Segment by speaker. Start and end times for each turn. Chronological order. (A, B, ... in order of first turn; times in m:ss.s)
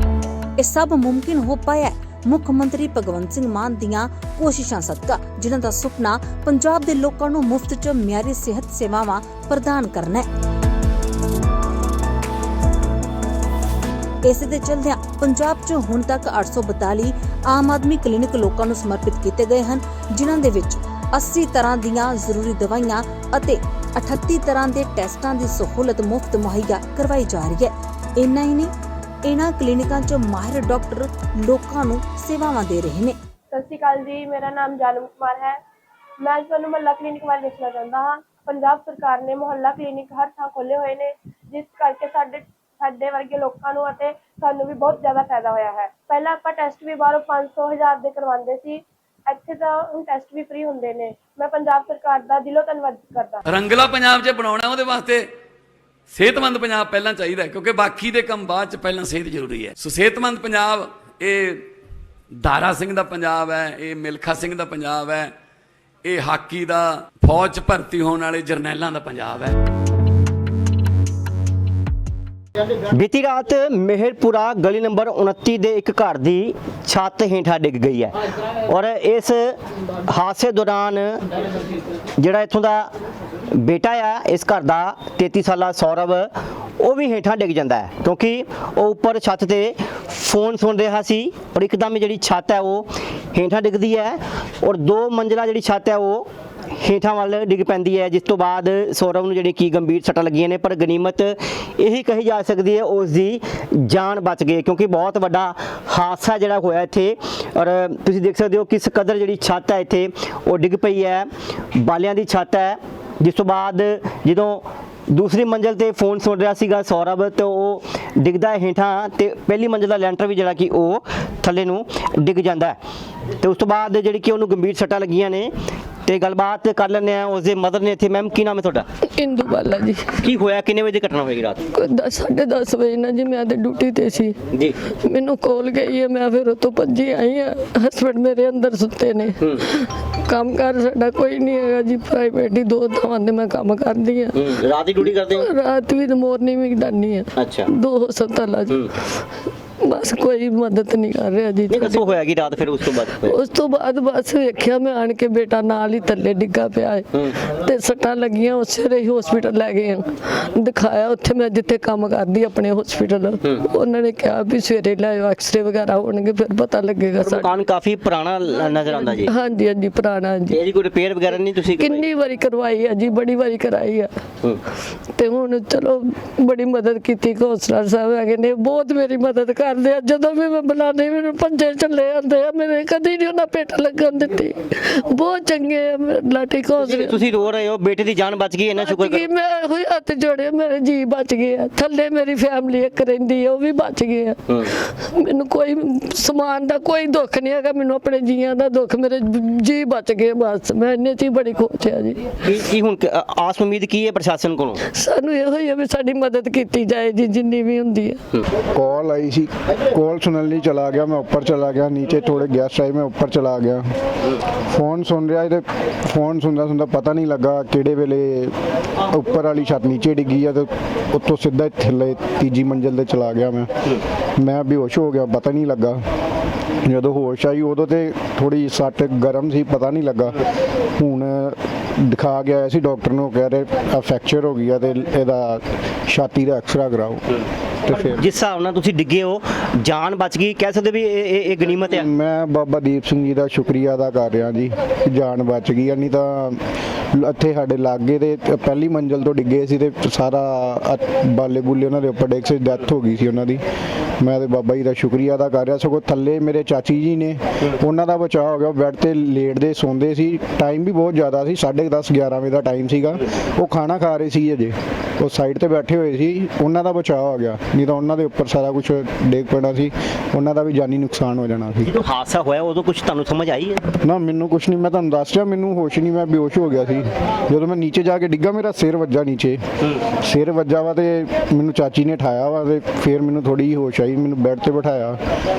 0:00.6-0:10.3 A
0:14.2-0:28.7 A
0:29.2-0:33.2 A
0:33.5-0:35.6 B
0:36.2-0:53.4 B
0:53.4-0:55.3 C
0:56.1-1:01.7 C
1:02.4-1:05.3 C
1:06.0-1:09.5 C
1:12.9-1:18.1 D
1:18.7-1:19.6 D
1:20.1-1:21.2 D
1:22.2-1:22.9 D
1:23.5-2:02.8 D
2:03.4-2:05.5 D
2:06.0-2:08.8 D
2:09.2-2:10.0 E
2:10.2-2:11.6 D
2:11.8-2:14.3 E
2:15.0-2:24.3 E
2:24.3-2:25.5 D
2:25.4-2:28.8 E
2:27.4-2:27.7 D
2:29.8-2:32.0 E
2:31.7-2:33.4 D
2:33.1-2:37.1 E
2:37.6-2:47.4 E
2:47.2-2:49.3 D
2:49.2-2:50.6 E
2:50.5-2:52.0 D
2:51.7-2:54.1 E
2:55.2-3:07.1 E
3:06.8-3:09.3 D
3:08.8-3:14.4 E
3:15.1-3:22.2 E
3:22.4-3:24.8 D
3:25.0-3:28.2 E
3:28.7-3:33.9 F
3:34.7-3:38.5 F
3:39.1-3:43.7 F
3:44.4-3:46.0 F
3:46.8-3:50.4 F
3:51.0-3:57.2 F
3:57.8-3:58.2 F
3:58.0-4:02.1 D
4:01.9-4:06.6 F
4:07.1-4:13.6 F
4:14.2-4:31.9 F
4:31.8-4:33.8 D
4:34.0-4:39.6 F
4:40.2-4:45.2 F